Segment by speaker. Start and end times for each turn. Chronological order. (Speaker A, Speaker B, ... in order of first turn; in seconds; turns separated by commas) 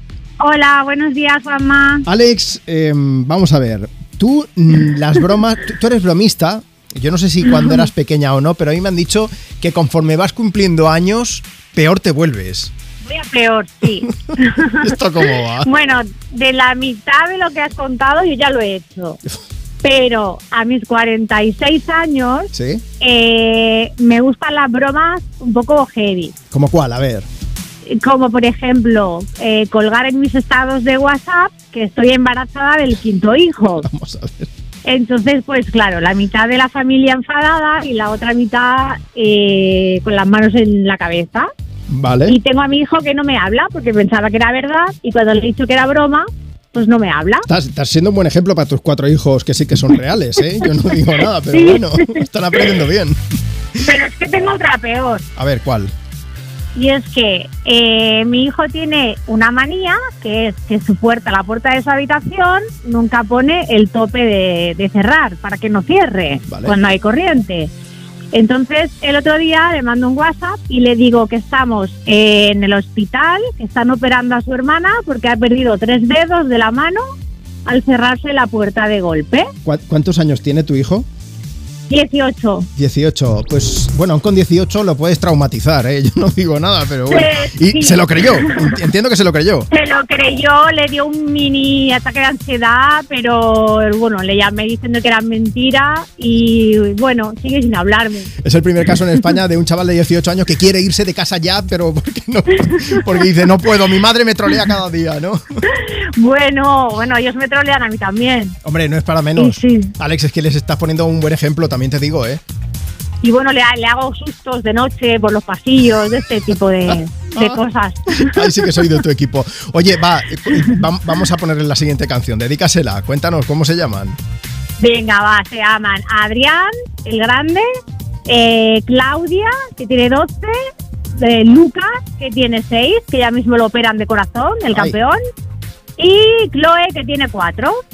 Speaker A: 0.4-2.1, Speaker B: 2.1-12.7, Speaker A: 13.0-19.2, Speaker B: 14.7-15.7, Speaker A: 19.8-26.4, Speaker B: 22.5-22.8, Speaker B: 26.5-27.3, Speaker A: 27.9-33.9, Speaker B: 33.8-34.5, Speaker A: 34.8-41.5, Speaker B: 41.9-42.4, Speaker A: 42.3-47.5, Speaker B: 47.5-53.2, Speaker A: 51.5-52.2, Speaker A: 53.8-55.3, Speaker B: 55.4-55.9, Speaker A: 56.7-67.7, Speaker B: 66.5-66.8, Speaker A: 68.3-77.0, Speaker A: 77.7-79.5, Speaker B: 79.6-81.1, Speaker A: 81.9-82.7, Speaker B: 82.8-89.7, Speaker A: 87.1-88.8, Speaker A: 89.7-98.3, Speaker B: 98.4-105.7, Speaker A: 102.7-103.3, Speaker A: 105.7-108.6, Speaker B: 108.6-112.4, Speaker A: 109.3-109.9, Speaker A: 113.2-118.9, Speaker B: 118.1-124.2, Speaker A: 124.8-127.6, Speaker A: 128.2-130.6, Speaker A: 131.2-135.2, Speaker A: 136.0-137.8